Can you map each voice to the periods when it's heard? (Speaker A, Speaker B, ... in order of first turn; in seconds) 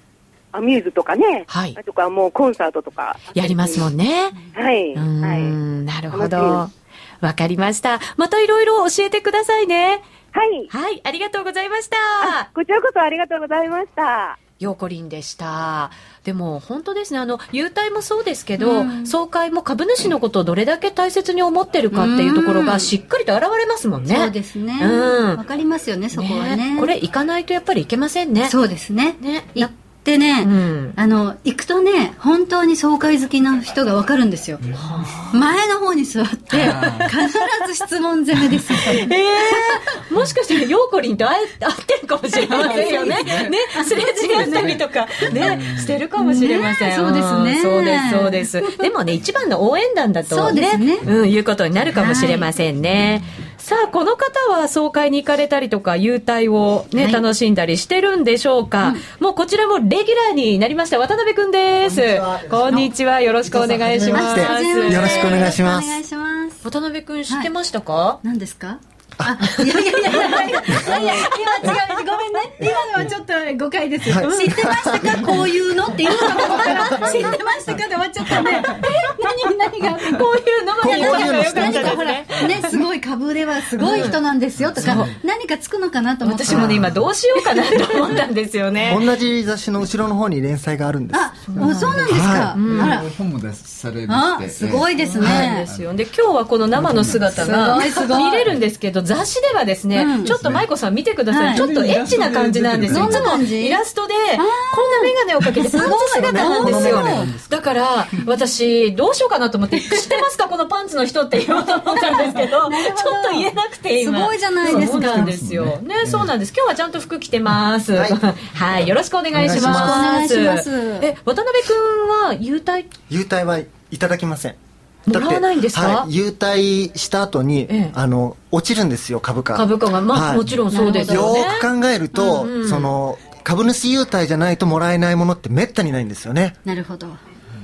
Speaker A: 0.5-3.9, 4.5-5.5, 6.1-6.6, 10.3-10.7, 12.2-14.4
Speaker B: 1.5-1.8, 3.3-4.4, 4.9-10.0, 10.7-12.5, 14.6-25.4, 26.1-28.6, 29.2-29.7, 30.4-31.0, 34.8-35.4, 36.5-37.4, 38.7-65.5, 66.6-68.2, 70.0-71.8, 76.5-77.2, 78.8-79.3, 80.1-82.6, 83.8-84.2, 84.8-85.1, 86.2-89.0, 91.5-93.0, 95.0-122.9, 125.1-126.1, 127.7-127.9, 129.5-132.9
Speaker C: 18.6-19.1, 21.9-22.9, 24.1-26.9, 28.4-34.6, 35.3-39.8, 42.4-44.8, 46.1-48.9, 50.3-51.1, 51.9-52.5, 56.9-57.2, 64.1-66.6, 68.2-80.2, 80.8-86.9, 87.5-87.8, 91.1-93.1, 94.1-95.7, 97.4-98.5, 99.9-100.3, 101.3-101.6, 102.9-103.8, 104.4-107.3, 109.8-110.2, 112.0-115.3, 119.4-121.1, 130.7-131.4, 136.6-137.2
Speaker D: 36.5-37.2, 42.5-43.5, 44.5-46.0, 91.7-95.9, 96.7-97.9, 100.2-100.7, 101.5-103.4, 114.6-116.3
Speaker E: 61.8-62.9, 63.5-66.0, 74.1-75.4, 76.5-77.4, 80.8-82.1, 84.8-85.1, 86.5-86.9, 88.9-92.7, 106.1-107.5, 117.9-118.2, 119.3-120.2, 123.1-124.6, 125.1-136.6